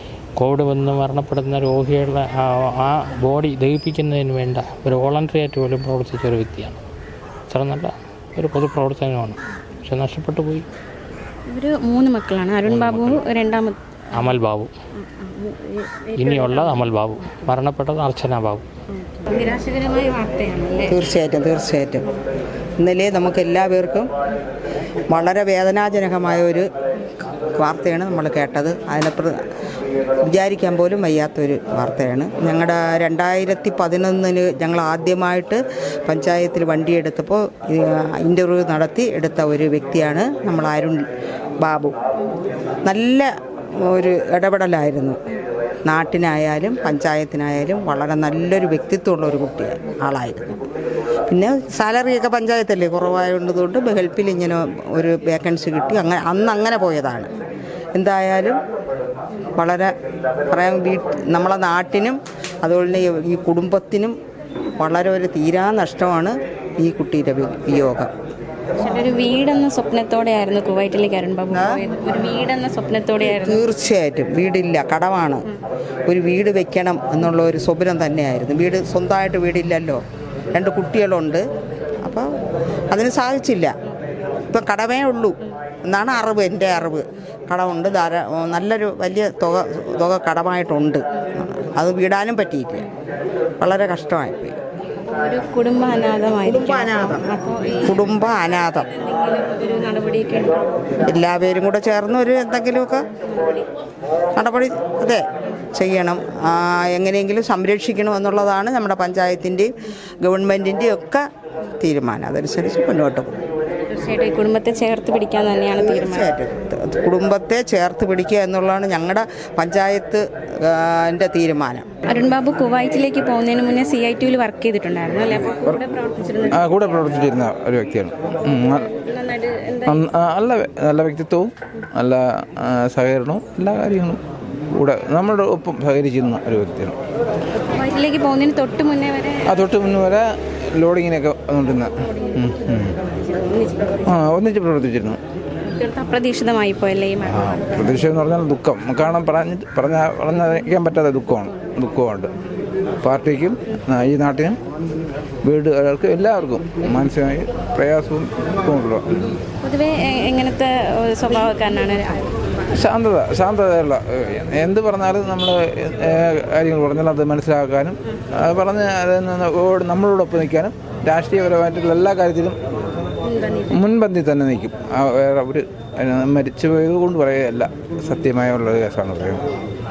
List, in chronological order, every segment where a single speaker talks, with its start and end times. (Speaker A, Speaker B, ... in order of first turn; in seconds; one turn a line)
Speaker A: 0.4-6.8
Speaker A: 7.5-10.7
Speaker B: 11.5-14.3
Speaker A: 12.7-13.2
Speaker A: 14.1-14.7
Speaker B: 14.9-17.4
Speaker A: 16.2-18.7
Speaker B: 18.9-21.0
Speaker C: 20.9-22.1
Speaker C: 22.8-24.1
Speaker C: 25.1-26.7
Speaker C: 27.6-29.4
Speaker C: 30.3-41.1
Speaker C: 41.6-42.0
Speaker C: 42.9-45.2
Speaker C: 45.9-50.7
Speaker C: 51.3-57.3
Speaker C: 58.0-58.6
Speaker C: 59.6-59.9
Speaker C: 60.5-64.2
Speaker C: 64.8-68.1
Speaker B: 68.8-73.6
Speaker C: 71.5-71.8
Speaker C: 73.2-75.5
Speaker C: 76.1-80.0
Speaker C: 80.5-81.4
Speaker C: 82.0-82.3
Speaker C: 82.9-83.7
Speaker C: 84.5-92.9
Speaker C: 93.6-94.6
Speaker B: 95.1-98.1
Speaker C: 96.4-97.2
Speaker C: 97.8-98.9
Speaker B: 98.7-100.8
Speaker C: 101.0-103.1
Speaker B: 103.2-103.7
Speaker C: 104.4-109.7
Speaker C: 110.2-111.2
Speaker C: 111.8-113.3
Speaker B: 113.9-116.3
Speaker C: 115.8-121.9
Speaker B: 122.0-126.8
Speaker D: 125.3-125.8
Speaker D: 126.5-128.9
Speaker B: 128.4-130.1
Speaker D: 129.9-137.0
Speaker B: 137.5-139.6
Speaker D: 139.5-143.0
Speaker B: 143.2-144.2
Speaker D: 144.1-145.2
Speaker B: 145.7-147.8
Speaker D: 147.2-152.3
Speaker D: 153.0-154.6
Speaker D: 155.4-159.1
Speaker B: 159.6-162.3
Speaker D: 162.7-172.6
Speaker B: 173.2-173.9
Speaker D: 173.7-179.4